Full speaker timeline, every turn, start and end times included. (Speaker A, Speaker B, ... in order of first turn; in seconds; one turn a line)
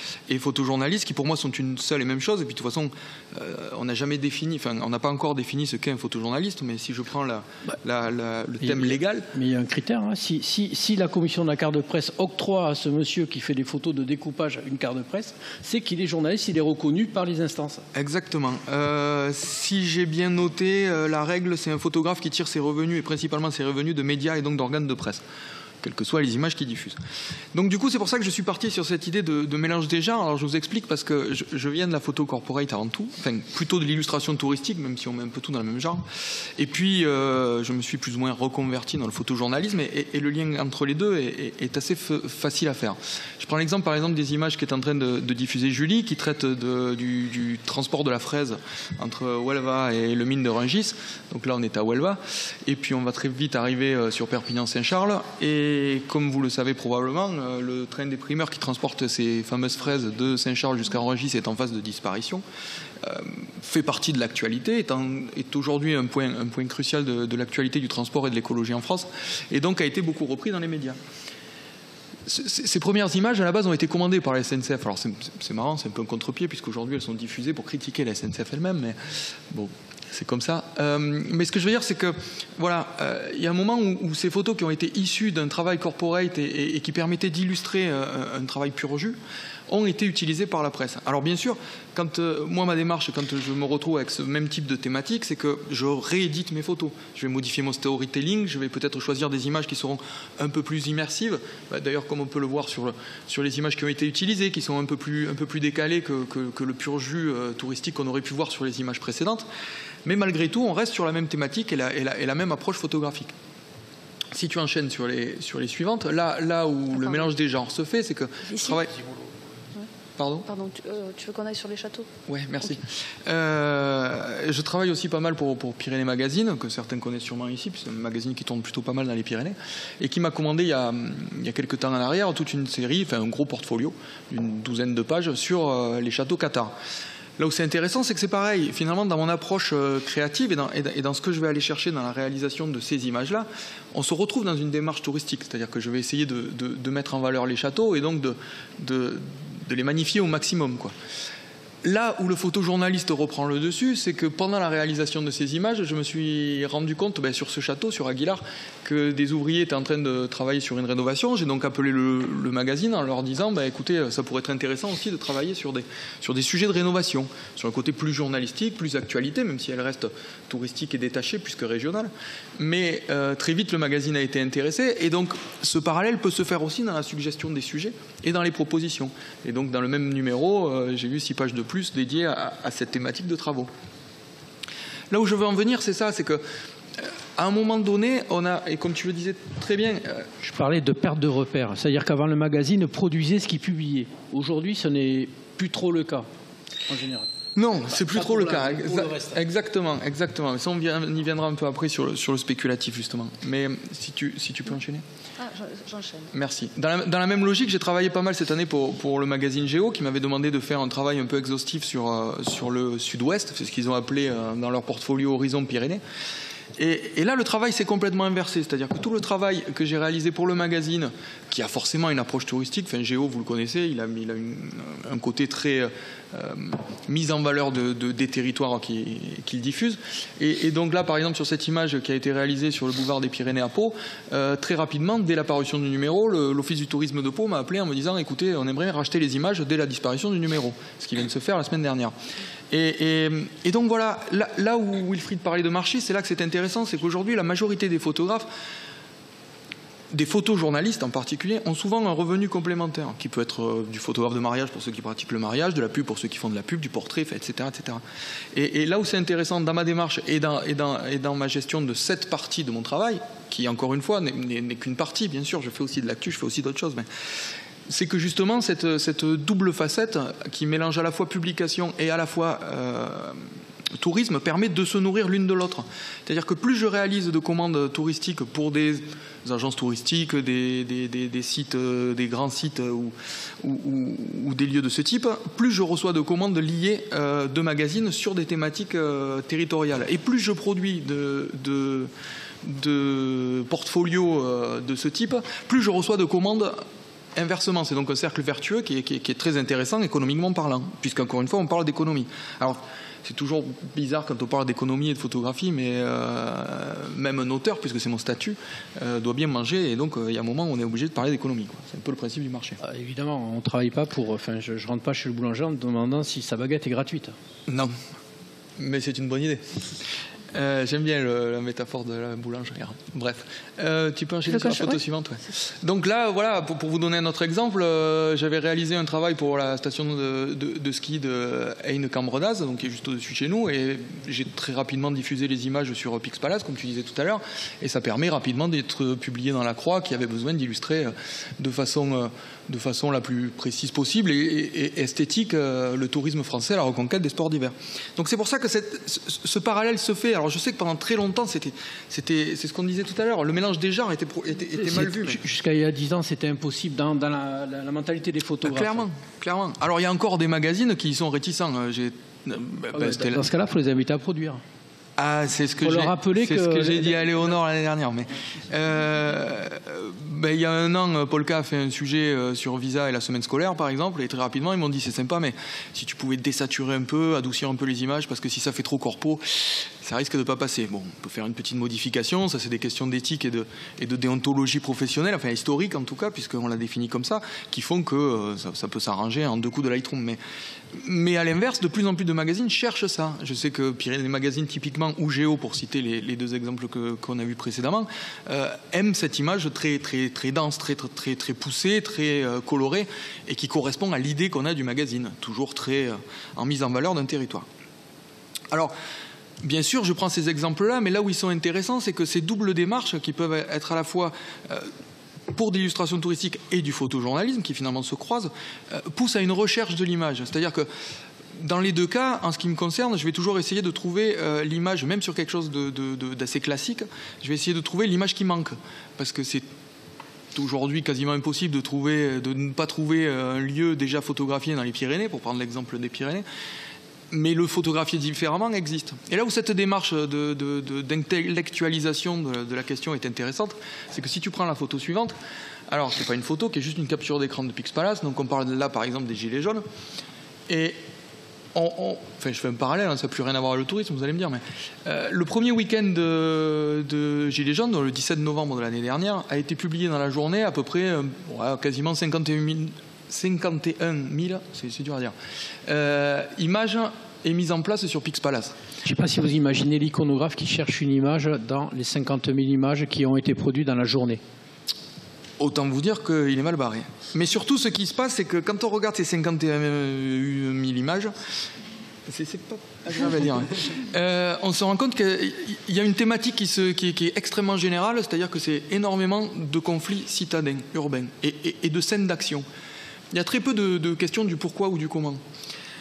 Speaker A: 0.3-9.3
Speaker B: 8.6-17.8
Speaker A: 17.9-25.2
Speaker A: 25.8-27.0
Speaker A: 27.5-36.0
Speaker A: 36.6-62.4
Speaker A: 63.0-71.0
Speaker A: 72.2-89.2
Speaker A: 89.7-109.5
Speaker A: 110.0-113.3
Speaker A: 114.3-118.9
Speaker C: 116.9-117.3
Speaker C: 118.5-118.8
Speaker A: 120.2-120.5
Speaker C: 120.5-122.8
Speaker A: 122.3-136.7
Speaker A: 137.4-150.9
Speaker A: 151.8-183.7
Speaker A: 185.1-186.4
Speaker A: 187.0-190.3
Speaker B: 190.4-196.3
Speaker B: 196.9-197.3
Speaker A: 197.6-205.0
Speaker B: 197.9-199.4
Speaker C: 205.4-206.3
Speaker A: 206.3-216.0
Speaker A: 216.8-242.1
Speaker A: 242.7-248.5
Speaker A: 250.1-258.0
Speaker A: 258.5-267.1
Speaker A: 267.9-273.4
Speaker A: 274.0-292.1
Speaker A: 292.6-296.8
Speaker A: 297.4-312.8
Speaker B: 312.8-317.3
Speaker A: 317.7-317.9
Speaker A: 318.8-319.6
Speaker A: 320.5-355.4
Speaker B: 354.8-359.1
Speaker A: 358.6-363.4
Speaker B: 362.9-364.6
Speaker A: 365.2-390.4
Speaker B: 365.8-367.6
Speaker A: 390.9-407.6
Speaker A: 409.6-414.9
Speaker A: 415.5-420.9
Speaker A: 421.6-429.6
Speaker A: 430.5-436.4
Speaker A: 437.3-445.4
Speaker A: 445.9-449.8
Speaker A: 450.7-451.0
Speaker A: 451.7-465.3
Speaker A: 465.9-468.7
Speaker B: 469.0-474.4
Speaker A: 475.6-481.3
Speaker A: 482.3-492.6
Speaker A: 493.3-495.4